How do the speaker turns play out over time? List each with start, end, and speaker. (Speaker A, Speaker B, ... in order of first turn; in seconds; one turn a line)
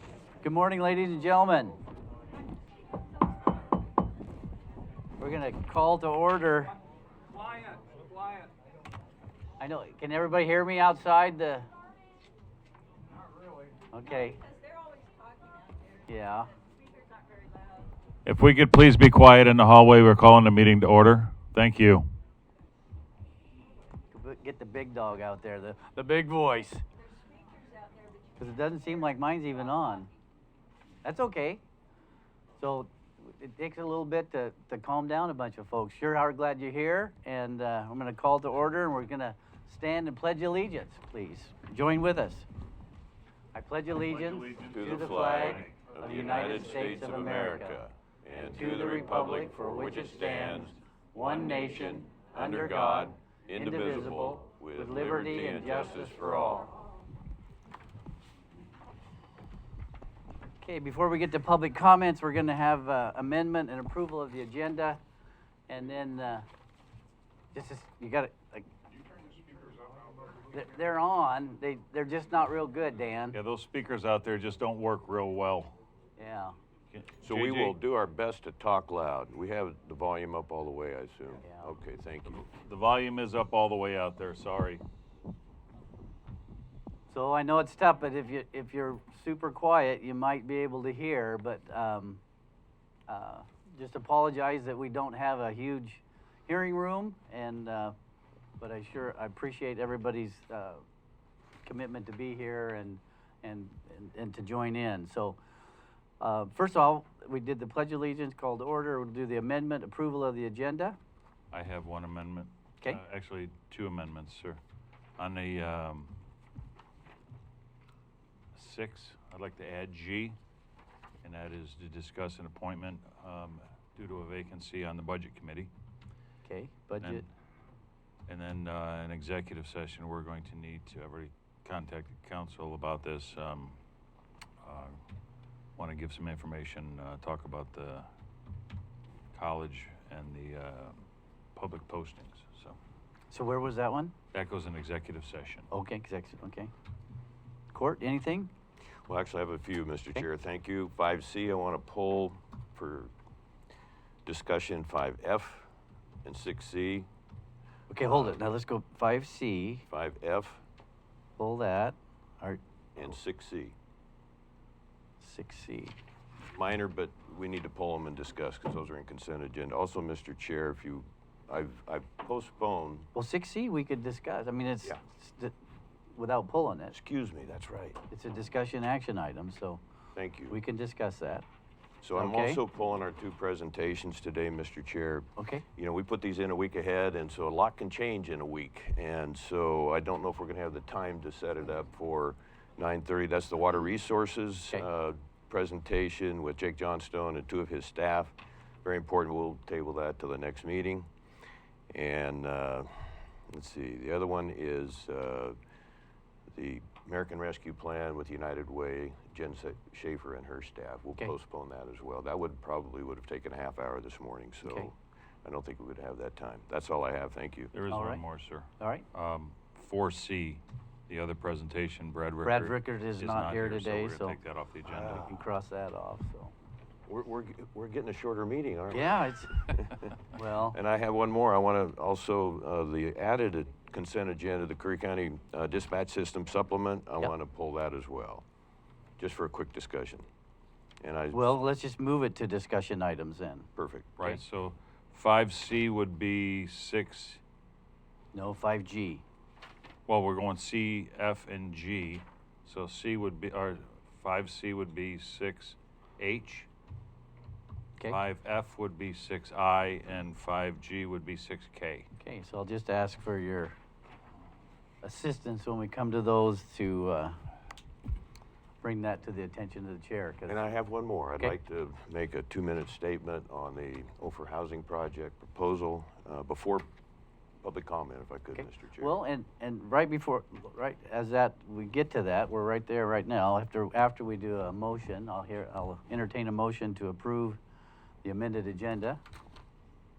Speaker A: 0.4-1.8
Speaker A: 5.2-6.7
Speaker A: 9.6-11.7
Speaker A: 13.9-14.4
Speaker B: 14.6-15.8
Speaker A: 16.1-16.5
Speaker B: 17.1-17.7
Speaker C: 18.2-22.1
Speaker A: 24.1-26.8
Speaker B: 27.6-28.1
Speaker A: 28.3-30.1
Speaker A: 31.0-31.6
Speaker A: 32.6-42.5
Speaker A: 43.5-47.8
Speaker C: 44.1-45.9
Speaker D: 44.6-56.7
Speaker A: 48.3-56.7
Speaker A: 60.6-65.0
Speaker A: 65.7-66.5
Speaker A: 67.5-68.7
Speaker A: 70.5-73.4
Speaker C: 73.3-75.8
Speaker A: 76.2-76.5
Speaker C: 76.9-77.8
Speaker D: 77.2-82.4
Speaker A: 81.4-81.7
Speaker C: 82.3-84.8
Speaker A: 87.1-92.2
Speaker A: 93.1-97.9
Speaker A: 98.6-100.8
Speaker A: 101.6-105.4
Speaker A: 106.2-111.0
Speaker C: 111.5-114.6
Speaker C: 115.2-116.1
Speaker C: 118.5-120.4
Speaker C: 121.2-125.7
Speaker A: 126.4-127.3
Speaker C: 128.3-133.8
Speaker C: 134.6-135.0
Speaker C: 135.8-138.1
Speaker C: 139.3-141.0
Speaker C: 141.6-142.8
Speaker A: 143.3-144.1
Speaker C: 144.3-145.7
Speaker A: 145.7-146.7
Speaker A: 147.7-148.5
Speaker D: 149.1-153.1
Speaker D: 154.2-155.7
Speaker D: 156.2-157.1
Speaker A: 157.9-159.8
Speaker D: 158.0-158.4
Speaker D: 159.9-160.6
Speaker A: 161.4-162.6
Speaker D: 162.9-163.8
Speaker A: 165.2-166.0
Speaker D: 166.5-173.1
Speaker A: 173.1-175.5
Speaker A: 176.1-176.9
Speaker D: 176.9-178.0
Speaker A: 178.1-179.8
Speaker D: 180.1-180.6
Speaker A: 180.5-181.5
Speaker D: 182.0-201.1
Speaker A: 182.1-182.6
Speaker A: 185.4-185.6
Speaker D: 201.9-205.6
Speaker D: 206.5-217.7
Speaker A: 214.6-214.9
Speaker C: 217.7-225.2
Speaker A: 217.9-218.2
Speaker A: 218.8-219.0
Speaker A: 222.4-224.4
Speaker D: 224.8-225.5
Speaker A: 225.0-226.5
Speaker D: 227.1-230.2
Speaker A: 228.9-230.8
Speaker D: 230.7-238.4
Speaker D: 239.2-240.2
Speaker D: 241.0-241.5
Speaker A: 241.3-243.7
Speaker D: 243.8-244.4
Speaker C: 244.2-247.4
Speaker A: 248.3-249.2
Speaker C: 250.1-256.7
Speaker C: 258.1-262.1
Speaker A: 262.2-263.8
Speaker A: 265.0-267.4
Speaker A: 268.8-270.6
Speaker D: 270.5-276.9
Speaker D: 277.6-279.2
Speaker A: 278.6-287.6
Speaker A: 288.2-289.2